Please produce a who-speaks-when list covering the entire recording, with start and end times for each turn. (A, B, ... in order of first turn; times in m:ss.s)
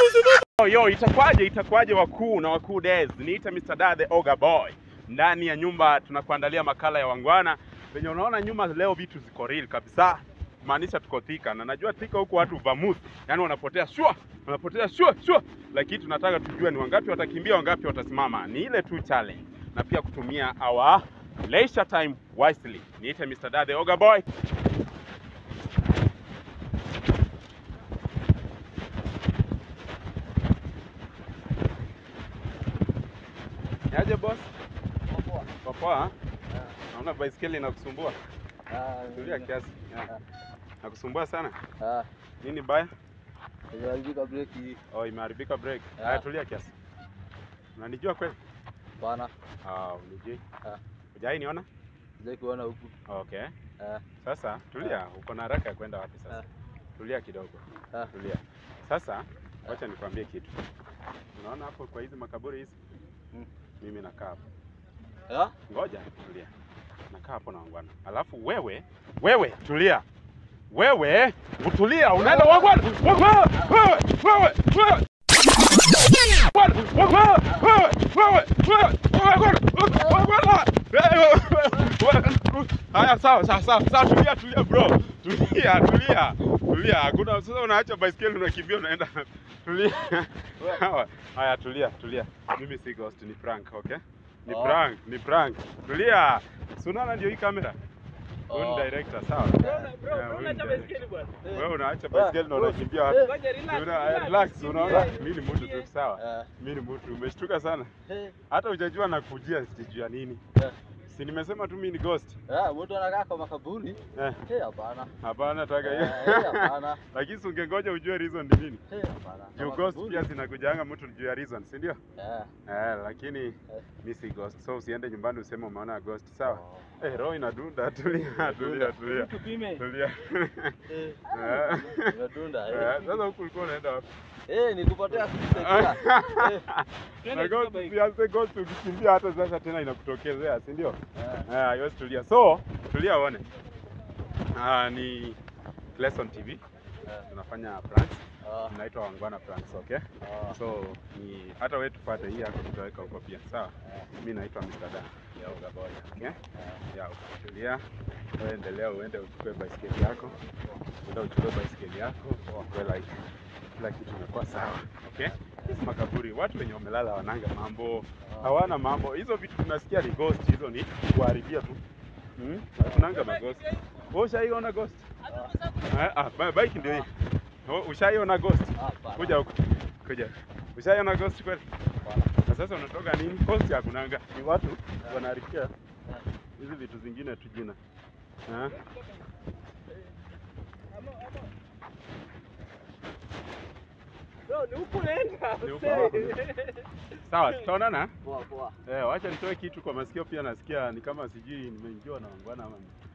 0:00.4-0:24.2 A
0:33.9-0:34.5 A
0:35.1-0:35.5 B
0:35.6-0:36.1 A
0:36.9-0:38.2 A
0:38.7-0:39.5 B
0:39.1-0:40.1 A
0:40.8-0:41.6 A
0:41.8-0:42.1 B
0:42.4-0:42.9 A
0:43.7-0:44.8 B
0:44.9-0:46.7 A
0:46.0-0:46.2 B
0:47.8-0:48.4 A
0:49.0-0:49.3 B
0:49.6-0:50.4 A
0:51.1-0:51.7 A
0:52.2-0:52.9 B
0:53.1-0:53.5 A
0:53.8-0:54.0 B
0:54.2-0:56.4 A
0:57.0-1:00.6 A
1:01.3-1:02.8 A
1:03.8-1:04.4 A
1:05.3-1:05.5 B
1:05.7-1:06.5 A
1:07.1-1:10.0 A
1:10.7-1:15.0 A
1:12.2-1:12.7 B
1:16.4-1:37.8 A
1:19.9-1:20.2 B
1:34.5-1:34.8 B
1:38.5-1:38.9 B
1:38.5-1:47.9 A
1:39.6-1:40.0 B
1:39.7-1:41.3 C
1:41.4-1:43.4 B
1:43.2-1:45.9 C
1:44.8-1:45.1 B
1:46.2-1:46.5 B
1:48.1-1:48.4 B
1:48.5-1:50.4 A
1:51.1-1:52.4 A
1:52.5-1:55.1 B
1:54.1-1:54.4 A
1:55.2-1:58.8 A
1:55.8-1:57.0 B
1:58.9-2:00.3 B
1:59.6-2:02.0 A
2:02.2-2:02.5 B
2:02.7-2:14.1 A
2:06.4-2:07.2 B
2:08.4-2:09.8 B
2:10.9-2:13.2 B
2:14.5-2:16.6 B
2:15.5-2:23.4 A
2:17.2-2:18.0 C
2:21.2-2:21.5 B
2:24.5-2:25.4 A
2:26.0-2:26.6 A
2:27.2-2:36.4 A
2:28.4-2:28.8 B
2:30.2-2:30.6 B
2:36.6-2:36.8 B
2:36.9-2:37.8 A
2:38.4-2:40.4 A
2:41.0-2:43.1 A
2:43.8-2:51.8 A
2:45.1-2:45.8 B
2:48.2-2:48.7 B
2:52.4-2:55.1 A
2:52.8-2:53.2 B
2:55.3-2:55.6 B
2:55.8-2:57.1 A
2:57.7-3:01.7 A
2:58.8-2:59.5 B
3:02.0-3:02.3 B
3:02.4-3:05.7 A
3:06.6-3:07.8 A
3:08.5-3:08.8 A
3:11.0-3:11.5 C
3:14.5-3:16.8 C
3:15.6-3:16.4 A
3:15.8-3:16.2 B
3:17.2-3:18.1 A
3:18.2-3:18.8 B
3:18.8-3:22.9 A